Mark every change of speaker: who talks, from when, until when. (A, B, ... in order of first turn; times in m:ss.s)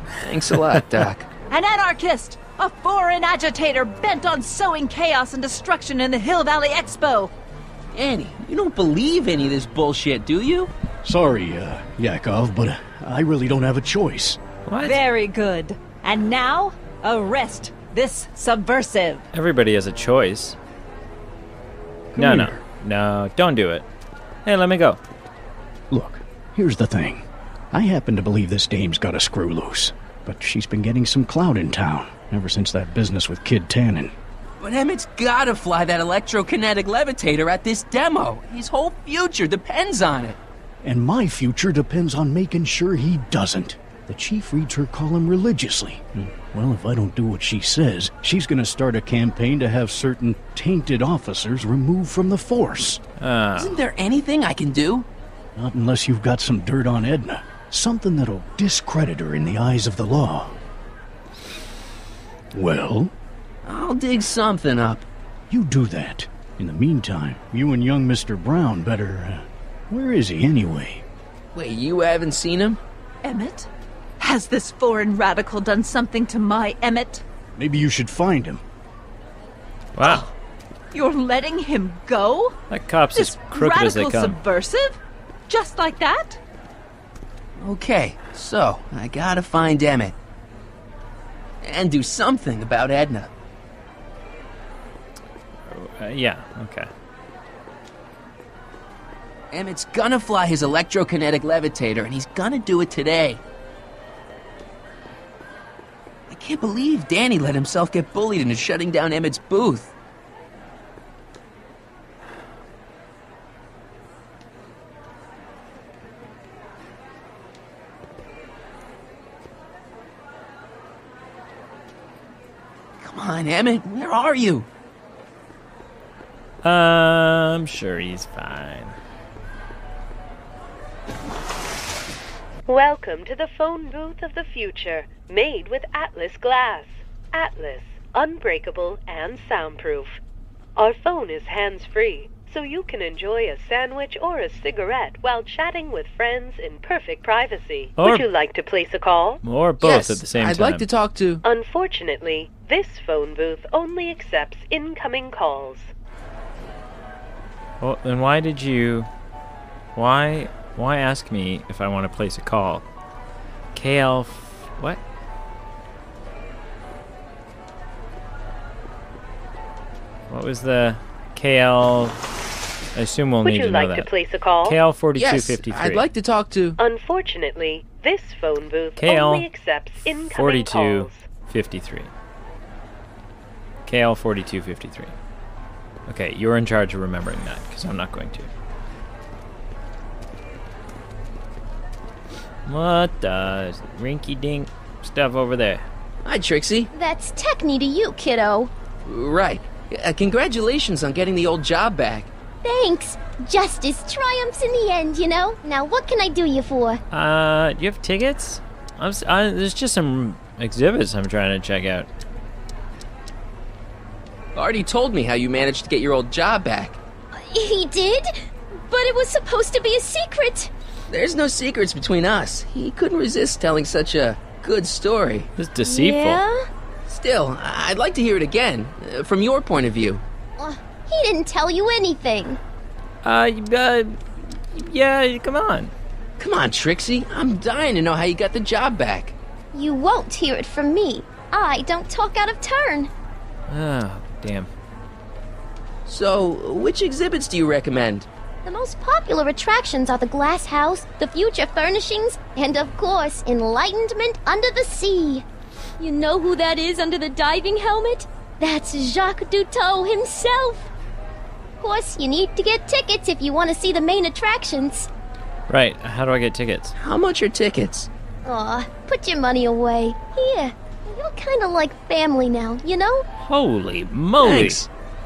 0:00.2-0:01.3 A
0:01.5-0:07.3 B
0:07.9-0:10.7 A
0:11.0-0:14.4 C
0:14.6-0:15.0 D
0:14.8-0:19.2 B
0:19.3-0:20.6 D
0:22.1-0:22.6 C
0:22.2-0:23.8 D
0:24.4-0:25.0 D
0:25.9-0:34.1 C
0:34.6-0:40.4 A
0:40.8-0:53.0 C
0:53.2-0:53.8 D
0:53.6-0:55.1 A
0:55.6-1:00.6 C
1:02.5-1:03.1 C
1:03.6-1:05.0 A
1:05.5-1:11.0 C
1:11.5-1:12.8 A
1:13.2-1:13.7 B
1:14.2-1:17.2 B
1:17.6-1:18.6 C
1:19.9-1:20.2 D
1:20.0-1:20.3 B
1:20.9-1:22.6 B
1:22.7-1:24.4 D
1:23.1-1:26.4 B
1:27.6-1:30.1 A
1:31.6-1:33.3 A
1:35.7-1:36.9 D
1:39.5-1:43.4 A
1:46.3-1:49.9 A
2:03.0-2:04.7 A
2:06.6-2:09.0 D
2:12.6-2:20.2 E
2:20.8-2:29.4 E
2:28.0-2:28.3 D
2:29.4-2:30.8 D
2:29.8-2:31.4 A
2:31.4-2:35.9 E
2:37.8-2:39.1 D
2:40.0-2:42.8 D
2:43.7-2:45.0 D
2:50.3-2:52.2 D
2:52.9-2:54.1 D
2:53.4-2:54.8 E
2:54.6-2:56.0 D
2:55.2-2:56.8 A
2:56.8-3:01.2 E
2:59.0-2:59.5 D
3:00.3-3:02.1 D
3:03.8-3:05.1 D
3:06.1-3:08.5 D
3:12.6-3:15.8 D
3:16.2-3:16.9 A
3:16.9-3:18.7 F
3:19.0-3:22.3 A
3:22.6-3:27.0 F
3:27.1-3:32.1 D
3:34.5-3:37.0 A
3:37.3-3:40.7 F
3:41.1-3:45.5 A
3:45.6-3:46.4 D
3:45.8-3:46.6 F
3:47.1-3:50.2 A
3:50.6-3:52.6 F
3:53.2-3:55.9 D
3:56.4-3:59.3 A
3:59.7-4:03.1 F
4:03.7-4:04.7 D
4:06.0-4:08.3 A
4:08.6-4:15.4 F
4:16.0-4:20.9 F
4:21.8-4:25.1 F
4:25.7-4:26.9 D
4:27.0-4:28.1 A
4:28.4-4:33.2 F
4:33.4-4:34.8 D
4:34.4-4:34.9 A